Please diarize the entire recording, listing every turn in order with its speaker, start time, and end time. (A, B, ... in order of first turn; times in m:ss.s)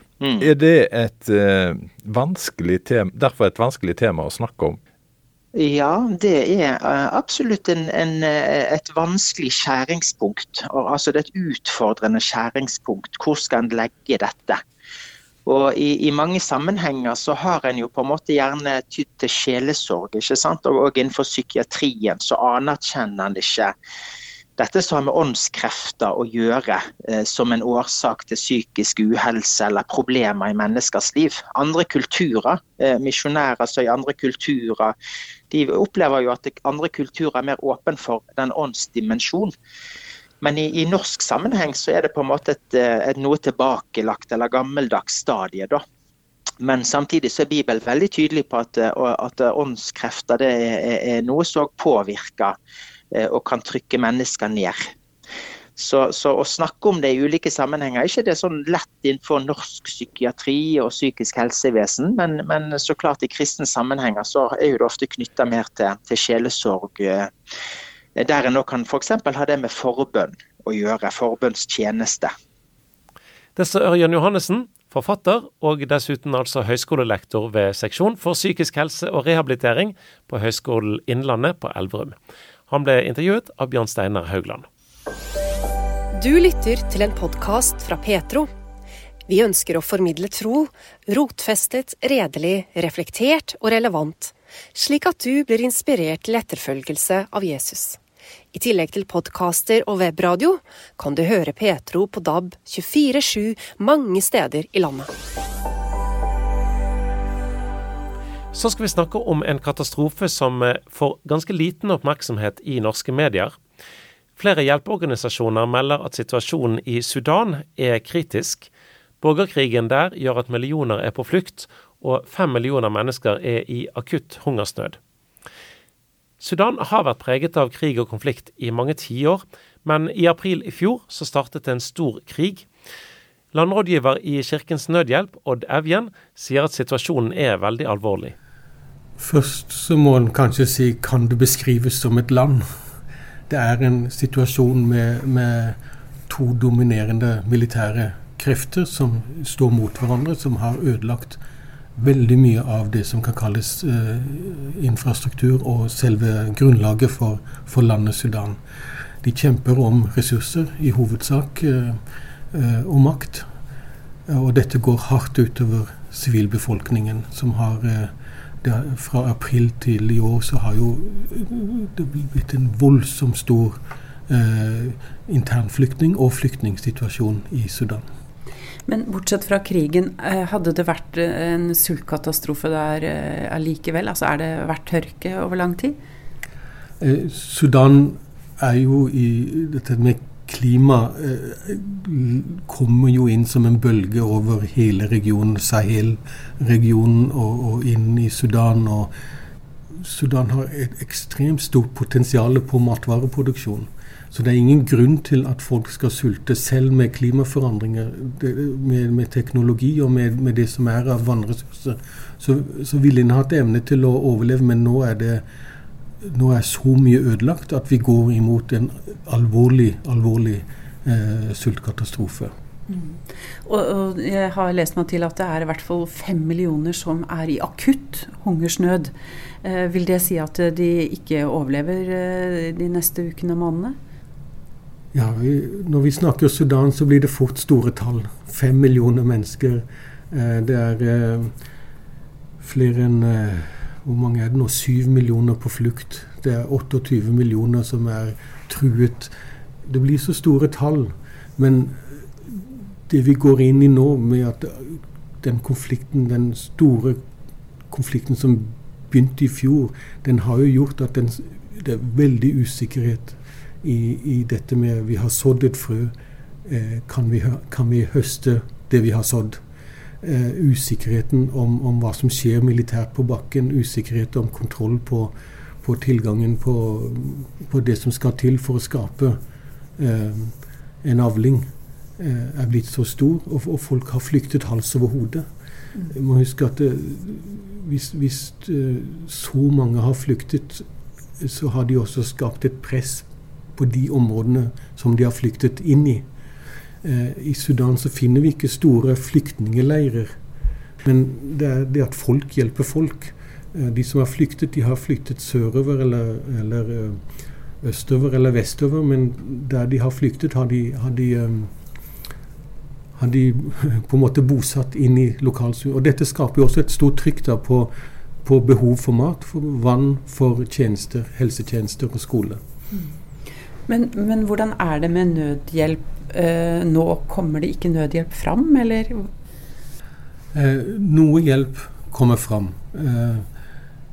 0:00.2-0:00.5 A
0:00.4-0:04.8 B
0:05.6-0:14.6 A
0:15.5-0:23.7 A
0:24.6-0:35.0 A
0:35.5-0:39.5 A
0:40.4-0:45.8 A
0:46.6-0:52.6 A
0:53.1-0:54.9 A
0:55.8-1:07.3 A
1:08.2-1:12.3 A
1:13.6-1:22.2 C
1:22.7-1:24.7 C
1:26.2-1:28.5 D
1:29.3-1:38.0 D
1:38.5-1:45.1 D
1:48.5-1:53.6 C
1:54.4-1:58.7 C
1:59.2-2:05.0 C
2:06.4-2:12.7 C
2:13.5-2:18.4 C
2:19.2-2:22.7 E
2:23.5-2:25.8 E
2:26.3-2:31.4 E
2:32.0-2:38.6 E
2:39.2-2:42.0 E
2:42.5-2:43.5 E
2:44.3-2:58.0 E
2:58.9-3:06.0 F
3:07.0-3:19.1 E
3:20.0-3:35.4 E
3:36.2-3:42.5 E
3:42.9-3:49.1 F
3:49.6-3:54.0 F
3:55.1-4:01.6 E
4:02.6-4:17.2 E
4:17.9-4:26.1 E
4:26.6-4:29.6 E
4:30.2-4:39.4 E
4:40.0-4:50.9 E
4:51.4-4:56.3 E
4:57.0-5:00.4 E
5:01.0-5:07.3 E
5:07.8-5:11.8 E
5:13.2-5:17.9 E
5:18.4-5:22.6 E
5:23.9-5:29.3 F
5:30.5-5:33.5 E